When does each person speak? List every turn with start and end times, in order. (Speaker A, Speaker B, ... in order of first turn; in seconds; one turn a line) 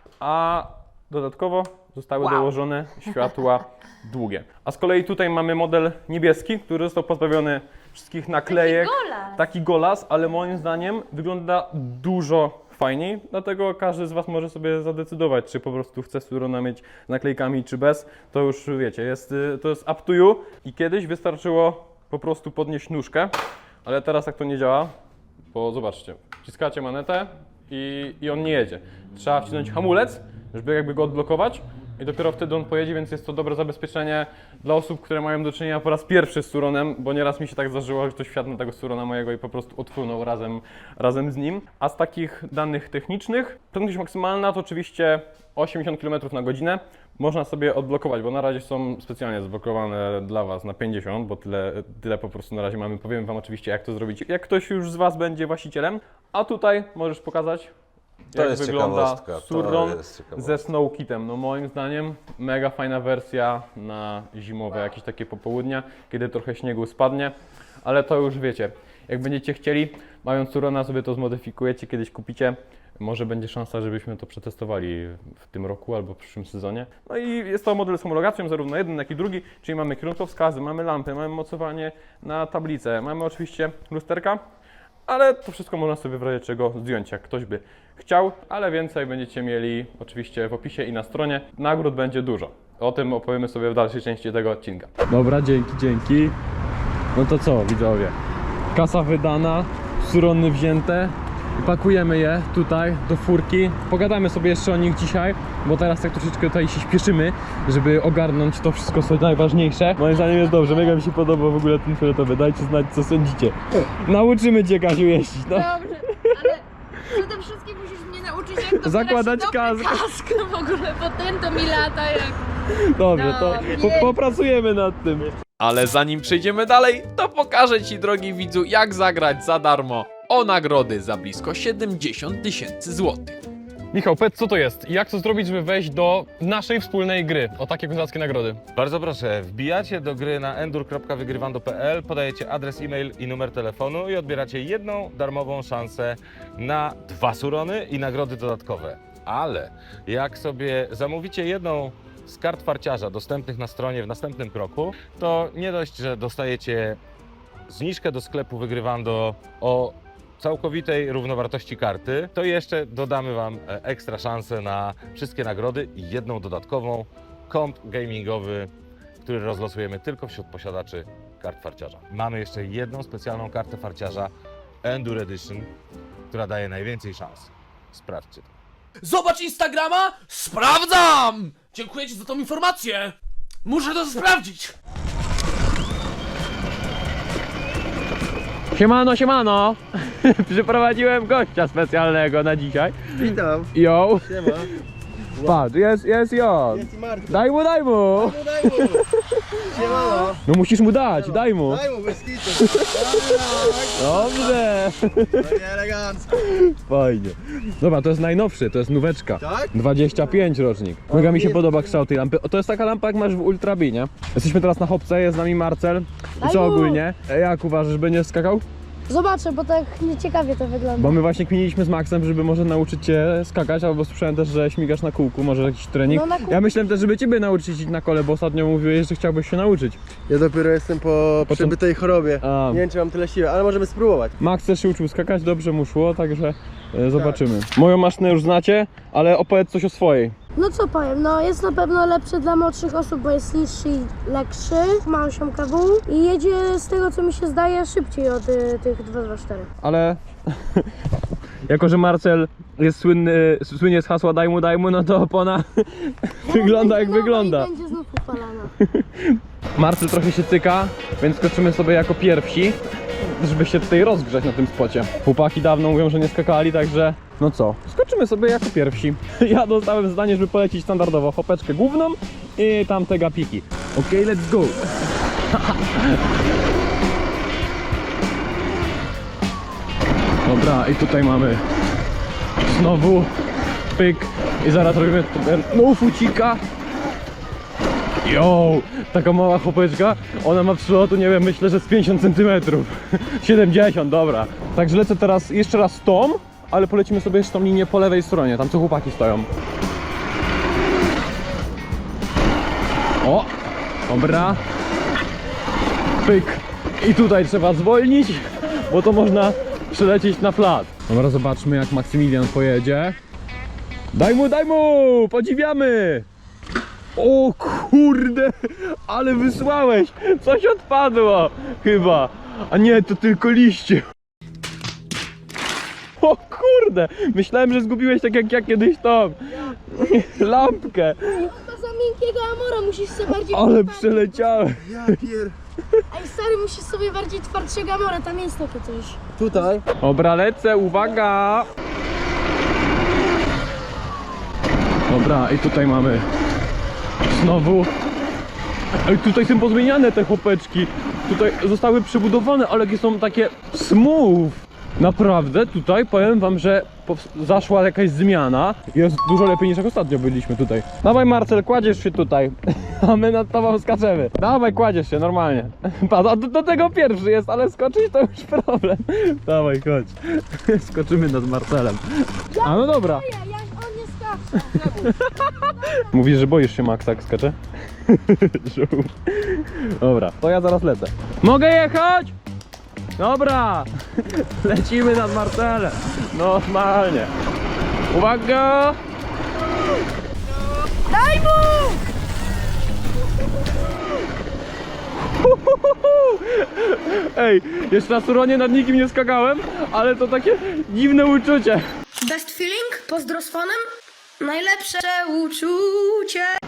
Speaker A: 0.2-23.3
Speaker B: 8.6-9.1
Speaker A: 23.8-24.9
Speaker A: 25.5-57.7
Speaker A: 58.3-84.4
Speaker C: 58.3-60.6
Speaker A: 85.1-96.3
Speaker A: 97.1-98.1
Speaker A: 98.7-116.5
Speaker B: 115.5-116.6
Speaker B: 117.5-122.3
Speaker A: 118.7-120.1
Speaker A: 122.8-133.4
Speaker B: 123.1-124.0
Speaker A: 133.9-138.6
Speaker C: 138.8-157.0
Speaker C: 157.7-168.7
Speaker C: 169.2-174.3
Speaker C: 174.8-175.7
Speaker C: 176.3-178.5
Speaker D: 179.0-183.1
Speaker D: 183.6-184.7
Speaker A: 188.7-194.5
Speaker E: 193.2-193.7
Speaker E: 194.2-194.7
Speaker A: 195.4-198.4
Speaker E: 196.7-197.4
Speaker E: 198.2-199.0
Speaker E: 199.7-200.4
Speaker F: 199.7-200.3
Speaker A: 200.4-201.8
Speaker E: 201.1-206.3
Speaker A: 202.6-202.9
Speaker A: 204.0-205.3
Speaker A: 206.5-218.6
Speaker E: 209.4-209.7
Speaker E: 211.1-211.9
Speaker F: 216.4-217.0
Speaker F: 219.1-221.2
Speaker A: 221.0-230.0
Speaker F: 226.1-226.6
Speaker E: 230.3-234.3
Speaker A: 231.5-231.7
Speaker A: 232.4-232.8
Speaker A: 234.4-240.3
Speaker E: 237.1-237.4
Speaker F: 240.6-249.7
Speaker A: 249.8-250.2
Speaker A: 251.7-257.7
Speaker F: 256.4-258.7
Speaker A: 258.8-274.9
Speaker A: 275.5-276.2
Speaker A: 280.4-281.6
Speaker A: 282.6-283.3
Speaker A: 283.9-286.6
Speaker A: 288.2-299.5
Speaker A: 303.2-303.5
Speaker A: 304.1-304.6
Speaker A: 306.2-313.1
Speaker A: 314.1-316.2
Speaker A: 317.1-324.0
Speaker A: 326.2-331.4
Speaker F: 331.3-334.5
Speaker A: 333.3-335.1
Speaker E: 334.8-335.6
Speaker F: 336.1-339.2
Speaker E: 339.4-339.8
Speaker A: 340.0-341.7
Speaker A: 345.1-346.2
Speaker A: 347.2-347.9
Speaker A: 349.0-373.3
Speaker F: 372.5-375.1
Speaker A: 374.7-382.3
Speaker F: 375.7-376.1
Speaker A: 383.2-387.3
Speaker A: 388.1-389.0
Speaker F: 391.1-392.0
Speaker A: 395.4-401.8
Speaker F: 402.2-403.8
Speaker F: 404.4-406.6